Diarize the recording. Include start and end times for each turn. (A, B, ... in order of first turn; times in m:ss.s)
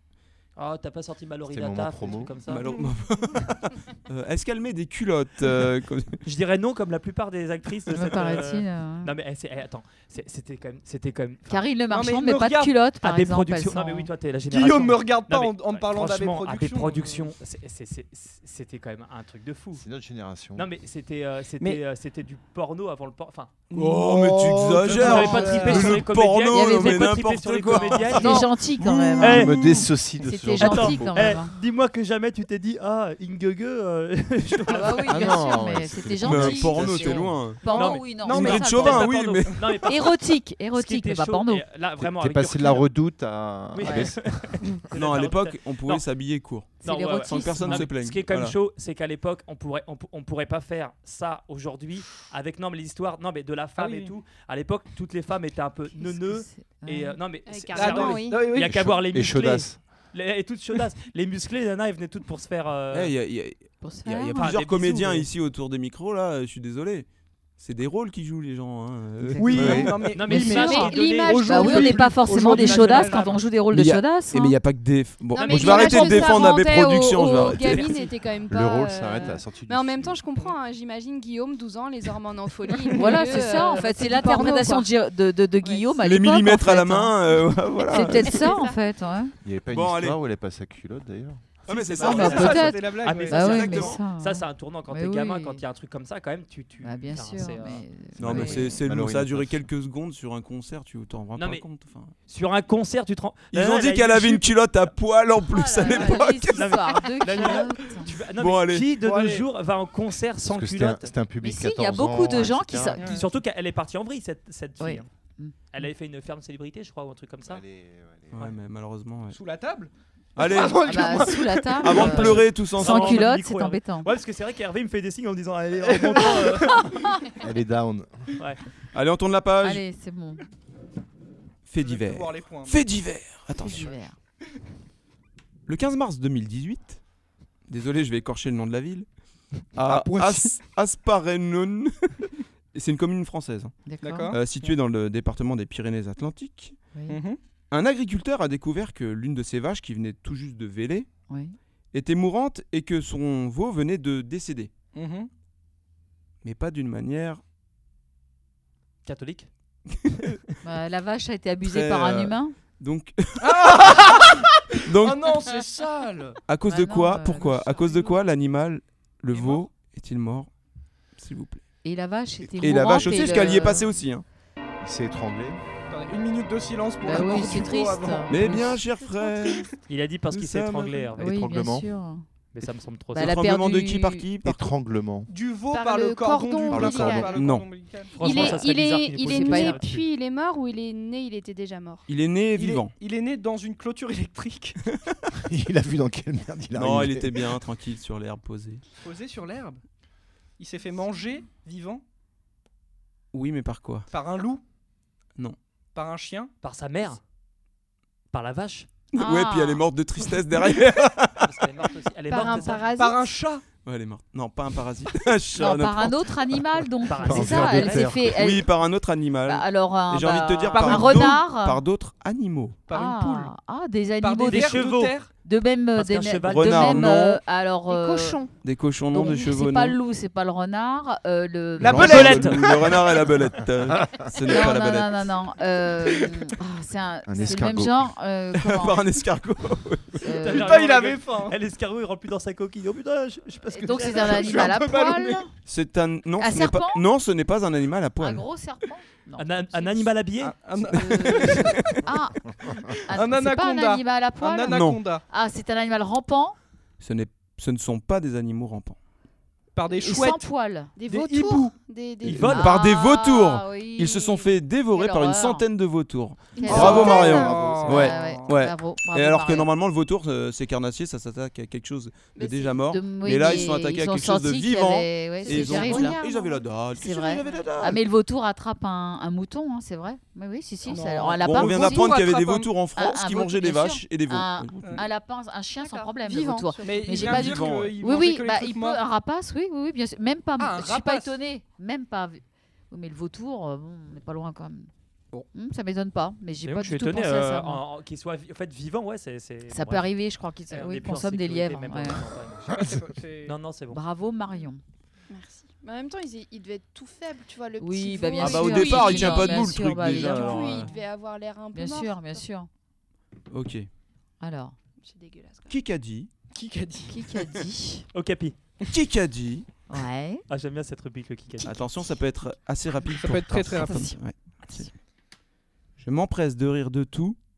0:00.6-0:02.7 A
0:01.5-0:02.4 B
0:02.5-0:06.2 C
0:02.5-0:02.9 D
0:06.2-0:11.6 A
0:07.9-0:09.1 E
0:11.5-0:14.1 E
0:11.9-0:12.7 D
0:13.0-0:19.8 A
0:14.5-0:17.3 D
0:19.7-0:20.7 B
0:20.5-0:23.6 A
0:23.7-0:26.0 D
0:23.7-0:29.5 C
0:24.8-0:28.5 A
0:25.0-0:27.2 E
0:27.7-0:31.5 E
0:28.2-0:28.5 D
0:29.2-0:29.6 A
0:29.2-0:31.4 B
0:30.6-0:35.5 A
0:34.7-0:39.1 E
0:35.1-0:37.5 B
0:36.2-0:39.6 C
0:37.6-0:42.9 A
0:37.7-0:39.6 D
0:39.8-0:41.6 E
0:42.0-0:44.6 B
0:43.7-0:46.1 A
0:43.8-0:44.1 E
0:44.9-0:48.6 C
0:46.7-1:03.1 A
0:46.8-0:47.9 E
0:53.8-0:54.1 D
0:56.0-0:57.2 E
0:57.5-0:58.4 F
0:57.7-0:58.9 D
0:58.9-1:00.0 B
1:02.9-1:10.1 C
1:03.8-1:04.5 E
1:04.4-1:05.3 A
1:09.2-1:10.9 E
1:09.4-1:13.4 D
1:09.6-1:10.0 B
1:10.1-1:13.4 A
1:10.4-1:12.0 F
1:11.4-1:14.5 E
1:13.7-1:17.8 C
1:15.3-1:24.9 F
1:15.4-1:17.7 E
1:18.5-1:20.2 B
1:22.9-1:23.3 D
1:22.9-1:29.3 E
1:26.0-1:28.4 C
1:28.0-1:28.8 F
1:29.4-1:31.6 B
1:29.7-1:30.2 C
1:31.7-1:34.0 C
1:31.7-1:33.8 D
1:31.9-1:37.8 A
1:32.0-1:35.6 E
1:36.8-1:38.8 E
1:38.2-1:39.7 B
1:38.2-1:42.1 C
1:41.4-1:41.7 A
1:42.3-1:44.5 A
1:43.5-1:46.8 C
1:45.5-1:48.1 E
1:45.9-1:51.1 A
1:48.4-1:48.9 C
1:49.0-1:49.5 D
1:50.4-1:53.1 B
1:51.4-1:53.0 E
1:53.0-1:53.3 D
1:53.0-1:55.1 A
1:54.8-1:55.6 E
1:55.7-1:57.6 A
1:57.4-1:58.5 B
1:58.3-1:59.4 C
1:59.3-2:02.2 D
2:00.4-2:01.2 C
2:00.8-2:04.1 E
2:01.8-2:03.3 C
2:01.9-2:07.0 A
2:05.8-2:06.9 D
2:07.4-2:08.3 B
2:08.9-2:09.8 C
2:09.6-2:10.4 E
2:11.7-2:13.9 C
2:11.8-2:12.8 D
2:13.6-2:14.1 E
2:15.6-2:17.0 C
2:17.7-2:19.1 C
2:19.7-2:23.8 C
2:19.8-2:20.6 D
2:23.8-2:24.3 E
2:24.0-2:24.4 D
2:24.3-2:26.8 C
2:27.1-2:27.4 D
2:27.7-2:31.1 C
2:31.3-2:31.6 E
2:31.9-2:34.7 C
2:34.9-2:35.3 D
2:36.4-2:37.4 C
2:39.0-2:39.5 A
2:40.0-2:40.4 C
2:40.6-2:42.5 E
2:41.6-2:44.3 C
2:43.4-2:46.4 D
2:44.8-2:45.4 C
2:46.5-2:50.5 C
2:46.7-2:47.9 E
2:49.3-2:49.6 D
2:51.2-2:51.6 C
2:51.8-2:53.8 E
2:52.4-2:53.8 B
2:52.6-2:54.2 C
2:54.8-2:55.6 B
2:55.9-2:58.8 D
2:57.0-2:58.7 E
2:58.3-2:59.7 C
2:59.0-2:59.6 F
2:59.9-3:01.4 A
3:00.3-3:01.1 C
3:01.2-3:02.2 E
3:01.2-3:01.9 B
3:02.5-3:03.4 A
3:03.1-3:04.3 E
3:03.1-3:04.7 C
3:04.4-3:05.3 B
3:05.3-3:08.5 D
3:05.7-3:07.5 F
3:06.7-3:07.4 B
3:07.3-3:07.7 C
3:08.1-3:10.0 A
3:08.2-3:12.1 F
3:08.3-3:08.7 E
3:09.2-3:10.0 E
3:12.1-3:12.9 C
3:12.6-3:14.8 D
3:15.4-3:17.5 B
3:16.7-3:18.8 C
3:19.0-3:19.8 D
3:20.6-3:22.0 D
3:23.3-3:24.1 C
3:24.1-3:24.6 D
3:25.9-3:26.5 D
3:26.6-3:27.2 A
3:28.3-3:28.9 A
3:29.1-3:31.5 C
3:29.2-3:29.8 E
3:31.4-3:32.9 A
3:32.3-3:33.3 F
3:32.9-3:33.6 D
3:33.8-3:36.6 C
3:35.6-3:38.7 E
3:37.1-3:38.1 A
3:37.2-3:38.3 B
3:38.2-3:42.8 C
3:39.4-3:41.8 E
3:40.7-3:41.4 D
3:42.9-3:43.5 D
3:42.9-3:44.9 E
3:44.2-3:45.3 D
3:44.5-3:45.1 A
3:45.4-3:48.4 E
3:45.9-3:47.1 A
3:46.4-3:47.4 C
3:47.9-3:48.5 F
3:48.6-3:50.0 C
3:49.1-3:52.3 E
3:51.8-3:53.0 D
3:51.8-3:55.2 C
3:52.0-3:52.6 A
3:53.9-3:54.3 B
3:54.4-3:59.0 E
3:57.3-3:58.1 B
3:58.5-4:00.2 C
4:00.2-4:00.8 E
4:00.3-4:04.7 A
4:00.4-4:01.6 D
4:03.7-4:05.5 E
4:04.1-4:05.4 D
4:05.6-4:08.4 C
4:06.4-4:07.0 E
4:08.2-4:10.1 E
4:09.4-4:10.6 A
4:10.4-4:12.0 D
4:10.8-4:16.6 E
4:13.1-4:15.2 D
4:14.7-4:15.0 C
4:17.0-4:19.0 C
4:19.7-4:20.5 D
4:19.9-4:20.9 E
4:21.0-4:22.7 F
4:21.1-4:21.8 D
4:22.2-4:22.7 A
4:22.3-4:38.0 C
4:22.4-4:25.6 E
4:26.6-4:29.7 E
4:26.6-4:28.2 F
4:26.6-4:28.4 D
4:32.3-4:32.9 F
4:32.9-4:36.2 E
4:35.4-4:36.7 F
4:36.9-4:42.2 E
4:37.4-4:37.9 F
4:40.8-4:42.7 D
4:41.4-4:45.0 C
4:43.0-4:54.9 E
4:45.8-4:47.3 F
4:46.8-4:49.0 D
4:47.2-4:48.0 C
4:50.6-4:51.4 D
4:55.5-4:57.8 E
4:56.6-5:00.1 A
4:59.7-5:02.2 E
5:00.7-5:02.8 A
5:02.7-5:03.6 D
5:03.4-5:04.0 A
5:03.9-5:04.8 E
5:05.3-5:12.4 F
5:07.8-5:11.0 E
5:08.4-5:10.9 C
5:11.7-5:12.7 E
5:13.5-5:13.9 C
5:14.4-5:14.7 E
5:15.0-5:15.8 F
5:15.7-5:16.3 C
5:16.5-5:17.4 D
5:17.1-5:18.0 E
5:18.1-5:18.6 A
5:18.9-5:19.7 C
5:19.9-5:20.4 E
5:20.5-5:21.8 A
5:21.6-5:24.9 C
5:23.2-5:24.1 D
5:23.8-5:24.9 E
5:26.0-5:27.4 C